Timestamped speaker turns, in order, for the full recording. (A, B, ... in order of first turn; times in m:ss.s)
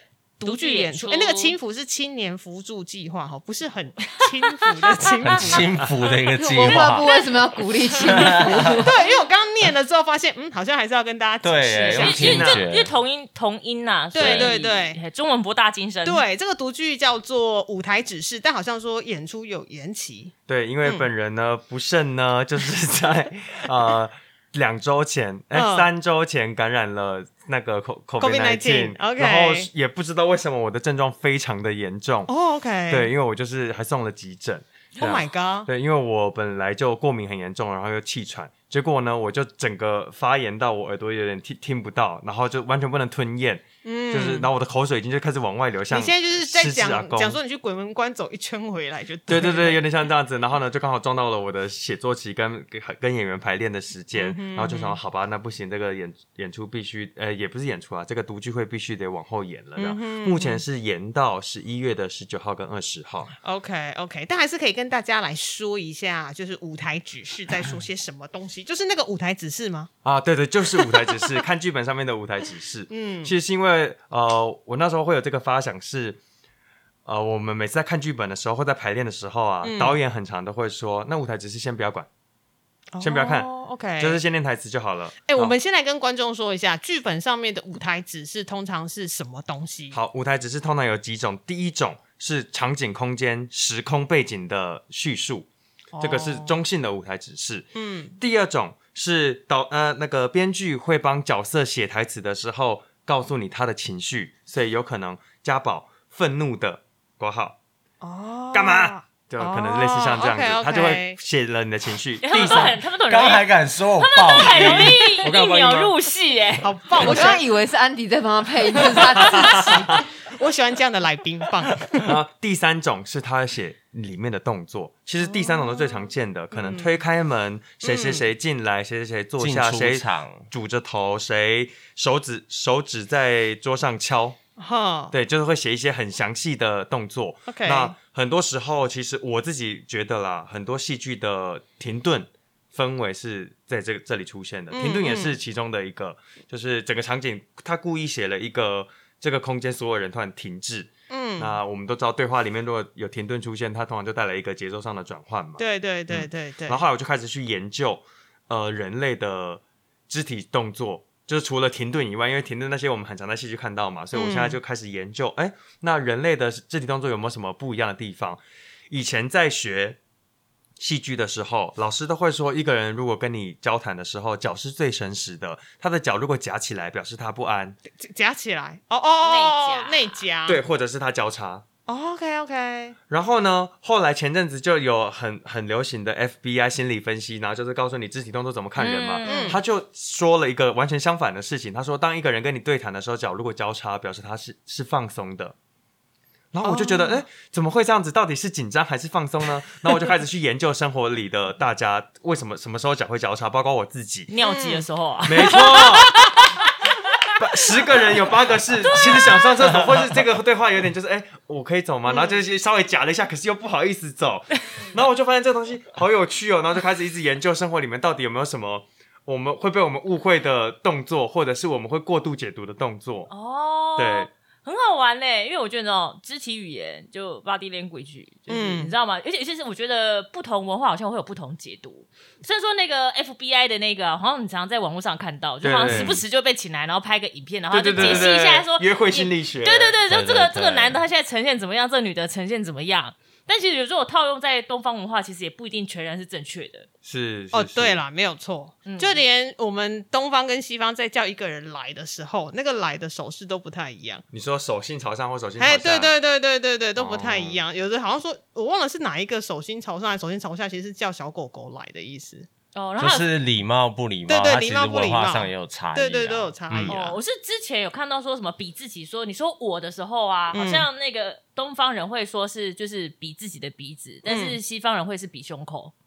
0:00.4-0:05.9 A
0:00.4-0:01.6 B
0:04.2-0:04.7 B
0:05.2-0:07.1 C
0:06.4-0:09.0 D
0:06.7-0:07.1 A
0:08.1-0:08.7 C
0:08.1-0:12.6 A
0:11.4-0:12.9 C
0:11.7-0:16.2 B
0:12.0-0:12.6 E
0:14.1-0:15.0 A
0:14.2-0:14.6 C
0:16.0-0:20.3 A
0:20.5-0:32.3 E
0:25.5-0:25.9 A
0:28.2-0:29.7 A
0:32.3-0:33.1 A
0:32.9-0:47.4 E
0:35.0-0:35.7 A
0:43.8-0:44.5 A
0:45.9-0:49.8 A
0:49.3-1:03.4 E
0:54.1-0:55.0 A
0:59.8-1:00.6 A
1:03.4-1:09.9 A
1:10.0-1:16.2 E
1:12.9-1:13.3 A
1:17.1-1:22.1 E
1:19.6-1:20.0 A
1:22.9-1:24.2 A
1:23.0-1:25.6 E
1:25.3-1:30.0 A
1:29.9-1:35.5 E
1:35.9-1:36.6 A
1:36.0-1:47.6 E
1:37.8-1:38.2 A
1:48.0-1:51.2 A
1:48.5-1:52.8 E
1:52.2-1:56.8 B
1:53.1-1:55.1 C
1:54.4-1:56.0 E
1:56.6-1:57.4 A
1:57.0-2:00.0 D
1:58.8-1:59.6 A
1:59.2-2:00.0 E
2:00.2-2:02.0 A
2:02.0-2:14.4 E
2:05.2-2:07.0 A
2:07.8-2:08.3 A
2:09.4-2:10.5 C
2:14.6-2:15.1 A
2:15.1-2:50.0 E
2:17.5-2:17.9 A
2:24.7-2:25.4 A
2:31.1-2:31.6 A
2:35.6-2:36.8 A
2:44.1-2:44.6 A
2:50.8-2:57.8 E
2:58.0-3:00.6 A
2:59.2-3:00.2 B
3:00.5-3:01.6 E
3:01.9-3:03.0 A
3:03.1-3:15.6 E
3:08.8-3:09.6 B
3:09.2-3:09.6 A
3:16.5-3:24.3 E
3:16.6-3:17.2 A
3:24.3-3:26.6 B
3:24.4-3:24.9 A
3:25.3-3:26.1 E
3:27.4-3:43.3 E
3:28.9-3:29.3 B
3:32.1-3:32.4 A
3:43.3-4:06.9 B
3:44.0-3:44.3 E
3:48.5-3:48.9 A
3:55.6-3:56.2 E
3:55.9-3:56.2 C
3:57.7-4:00.0 E
3:58.0-3:58.3 C
4:00.1-4:01.0 C
4:07.0-4:08.0 E
4:07.5-4:14.2 A
4:08.8-4:09.2 B
4:14.3-4:16.1 E
4:15.6-4:22.5 A
4:17.0-4:17.6 E
4:22.7-4:23.3 B
4:23.0-4:26.9 C
4:24.3-4:27.2 A
4:26.9-4:35.9 B
4:30.5-4:30.9 A
4:34.3-4:34.6 A